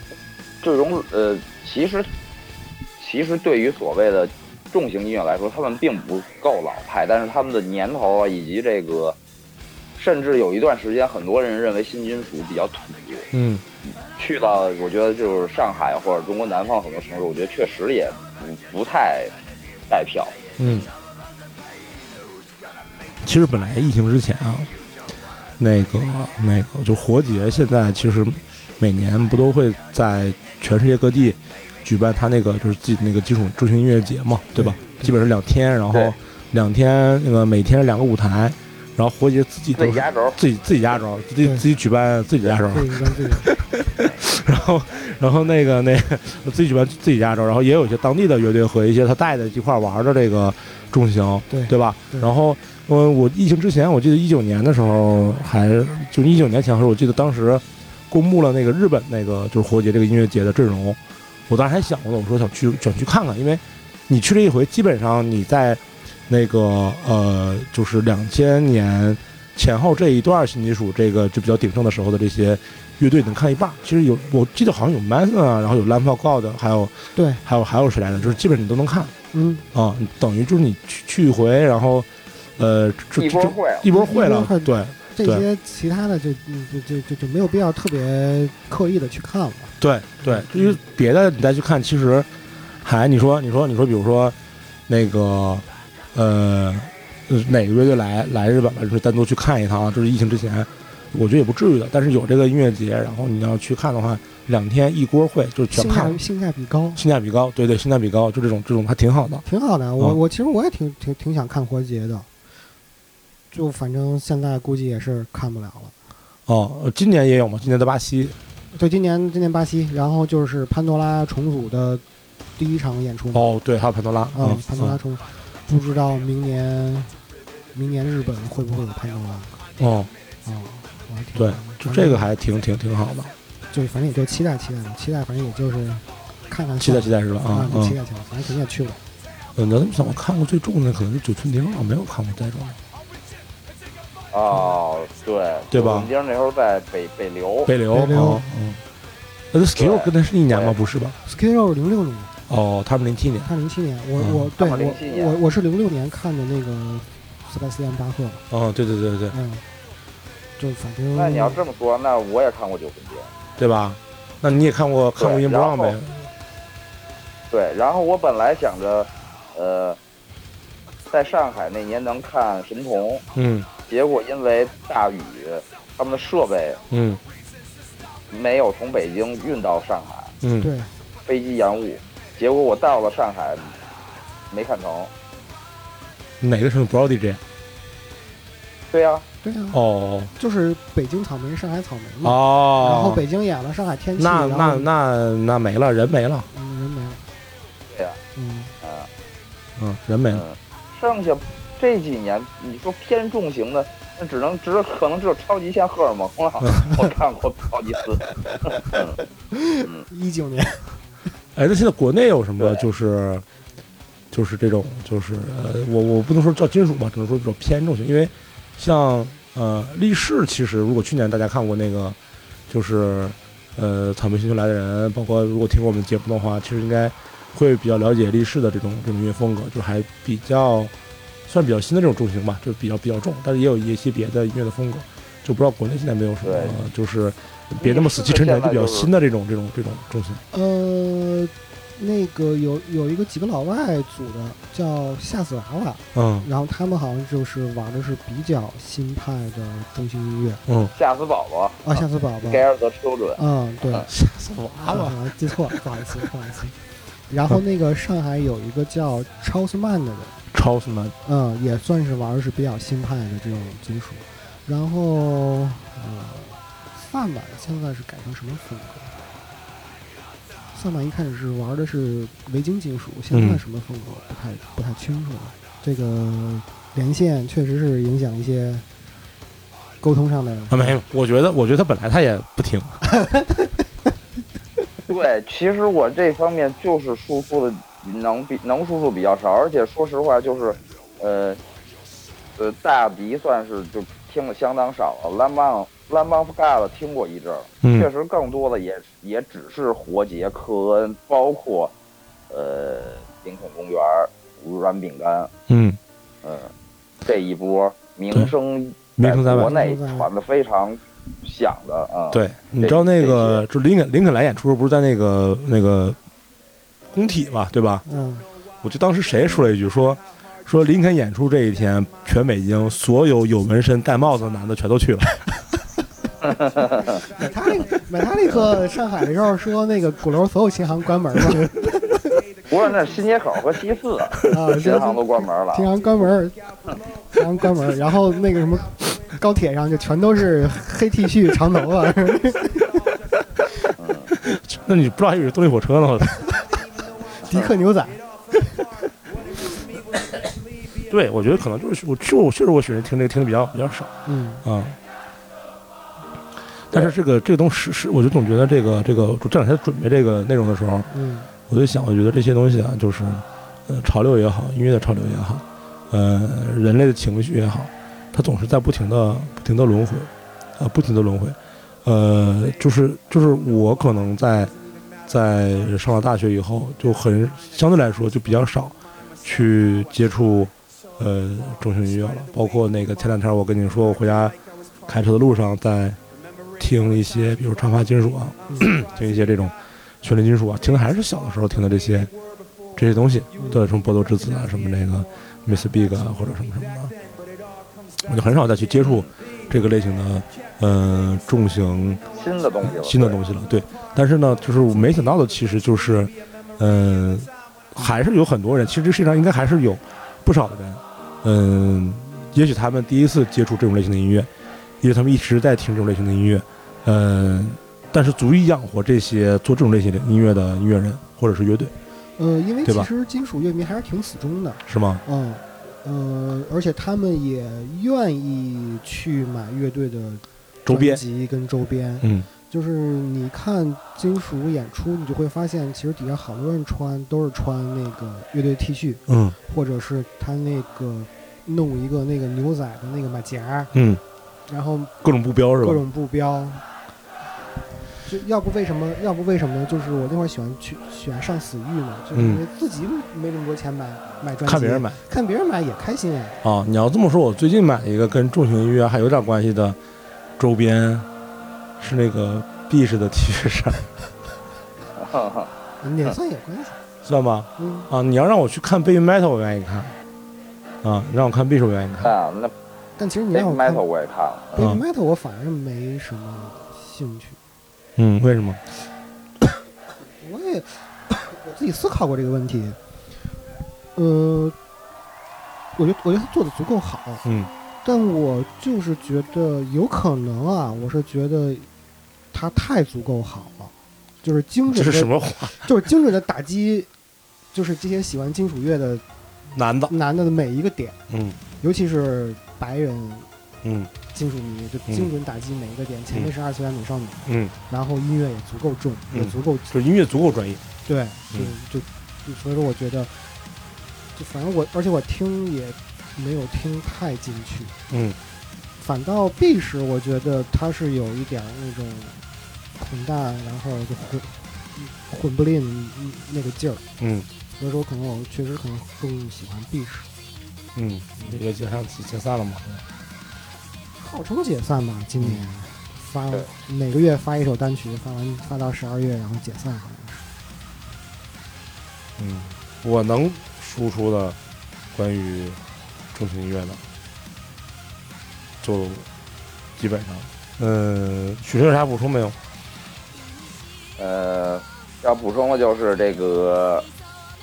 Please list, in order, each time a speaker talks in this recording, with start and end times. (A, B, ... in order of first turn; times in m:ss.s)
0:00.6-0:02.1 A
0:03.0-0:09.2 A
0:10.0-0:13.3 A
0:13.3-0:13.6 B
0:14.2-0:19.3 A
0:19.9-0:20.4 A
0:20.6-0:20.9 B
0:23.2-0:24.7 B
0:25.6-1:19.1 B
0:34.5-0:35.1 C
0:39.8-0:40.4 A
0:42.7-0:43.5 C
0:51.5-0:52.3 C
1:17.1-1:17.4 C
1:19.3-1:19.6 C
1:19.7-1:25.4 B
1:23.2-1:23.8 A
1:23.9-1:30.8 C
1:29.8-1:32.3 B
1:32.8-1:34.4 B
1:34.9-1:46.2 B
1:45.7-1:47.0 C
1:47.0-1:49.4 B
1:49.4-1:52.3 C
1:53.5-1:55.9 C
1:56.5-1:58.4 B
1:58.7-2:02.0 C
2:02.6-2:03.5 C
2:03.3-2:05.0 B
2:04.3-2:07.1 C
2:07.7-2:09.6 C
2:09.8-2:10.1 B
2:10.4-2:12.3 C
2:11.3-2:13.3 B
2:13.7-2:19.0 C
2:16.8-2:18.0 B
2:19.5-2:22.8 B
2:24.3-2:27.7 A
2:25.7-2:26.1 B
2:27.7-2:28.8 B
2:27.9-2:28.4 C
2:29.5-2:31.2 B
2:29.8-2:30.8 A
2:31.2-2:32.3 C
2:32.5-2:33.5 B
2:33.4-2:38.4 C
2:34.2-2:34.5 B
2:34.6-2:35.4 A
2:38.5-2:39.4 B
2:39.3-2:39.6 C
2:40.6-2:41.6 C
2:41.1-2:43.3 A
2:43.6-2:46.3 B
2:45.2-2:46.0 A
2:47.5-2:50.0 A
2:51.1-2:53.2 A
2:53.3-2:53.7 B
2:53.9-2:56.8 A
2:56.9-2:57.2 B
2:58.3-3:00.3 A
3:00.4-3:00.7 B
3:00.6-3:00.9 C
3:01.2-3:03.7 A
3:04.5-3:05.1 A
3:06.4-3:07.4 B
3:08.9-3:09.2 A
3:09.4-3:09.8 C
3:09.7-3:10.3 B
3:10.4-3:14.9 C
3:12.2-3:13.2 B
3:14.2-3:16.5 B
3:16.5-3:17.2 C
3:17.9-3:18.2 A
3:18.4-3:18.7 C
3:18.8-3:19.1 A
3:19.8-3:20.4 B
3:20.3-3:29.2 A
3:29.5-3:31.0 C
3:31.5-3:33.4 B
3:32.6-3:32.8 A
3:34.3-3:42.2 B
3:42.7-3:50.9 B
3:51.5-4:00.4 B
3:56.4-3:56.8 A
3:57.8-3:59.1 A
4:00.5-4:10.6 C
4:06.1-4:06.5 B
4:10.7-4:10.9 B
4:10.9-4:14.1 A
4:11.8-4:12.6 C
4:13.4-4:14.1 C
4:14.1-4:15.8 B
4:14.8-4:16.7 C
4:17.3-4:20.3 C
4:20.5-4:21.1 B
4:21.2-4:29.2 C
4:30.7-4:38.8 C
4:33.3-4:33.6 B
4:40.0-4:41.0 C
4:40.7-4:43.0 B
4:43.1-4:43.7 C
4:45.1-4:51.6 A
4:52.6-5:01.9 A
4:57.8-4:58.1 B
5:02.5-5:05.5 A
5:05.7-5:06.0 B
5:06.4-5:06.7 A
5:07.2-5:13.6 A
5:09.2-5:09.7 B
5:09.5-5:10.3 C
5:12.3-5:16.2 B
5:17.1-5:18.0 B
5:18.0-5:18.4 C
5:18.8-5:25.5 B
5:26.4-5:27.2 A
5:27.3-5:32.3 C
5:32.7-5:35.9 A
5:34.5-5:36.7 C
5:37.3-5:43.0 C
5:44.0-5:44.3 A
5:44.4-5:46.5 B
5:47.4-5:48.2 C
5:51.1-5:55.0 B
5:54.2-5:54.6 C
5:56.9-6:01.1 B
6:01.1-6:01.5 C
6:01.7-6:14.7 B
6:15.2-6:26.2 B
6:26.8-6:32.3 B
6:32.9-6:37.1 B
6:33.6-6:33.8 C
6:38.2-6:42.3 B
6:39.0-6:39.3 A
6:42.3-6:43.4 A
6:42.8-6:54.5 B
6:55.0-7:02.0 B
7:02.4-7:23.9 C
7:04.9-7:05.2 B
7:10.8-7:11.2 B
7:12.2-7:12.5 B
7:19.3-7:19.5 B
7:23.9-7:24.2 B
7:24.7-7:25.1 C
7:25.2-7:26.0 B
7:25.8-7:26.8 C
7:28.2-7:36.6 C
7:32.3-7:32.6 B
7:34.6-7:35.2 B
7:36.6-7:40.0 B
7:40.6-7:41.3 B
7:42.0-7:44.1 B
7:45.2-7:45.7 A
7:46.0-7:47.0 C
7:47.2-7:50.2 B
7:47.8-7:48.1 C
7:51.0-7:52.3 B
7:52.2-7:52.7 A
7:53.2-7:54.0 C
7:53.5-7:54.8 A
7:54.7-7:57.6 C
7:58.2-7:58.8 B
8:00.4-8:03.0 C
8:04.2-8:04.8 C
8:06.0-8:07.4 C
8:07.4-8:07.7 B
8:08.0-8:11.9 C
8:12.5-8:17.1 C
8:14.9-8:15.8 B
8:17.7-8:19.2 C
8:19.7-8:20.1 B
8:20.1-8:21.2 C
8:21.3-8:21.6 B
8:21.8-8:23.5 C
8:23.8-8:24.1 B
8:24.3-8:29.9 C
8:27.4-8:27.7 B
8:29.3-8:30.8 B
8:31.0-8:33.4 C
8:34.3-8:37.9 C
8:38.1-8:38.4 B
8:39.0-8:42.4 C
8:43.0-8:47.0 C
8:47.2-8:47.5 B
8:47.8-8:50.3 C
8:50.9-8:53.0 B
8:54.2-9:00.4 C
8:55.4-8:55.7 B
9:02.4-9:04.6 B
9:05.1-9:05.8 B
9:06.3-9:07.0 B
9:08.8-9:09.3 B
9:10.0-9:12.6 B
9:14.2-9:17.1 A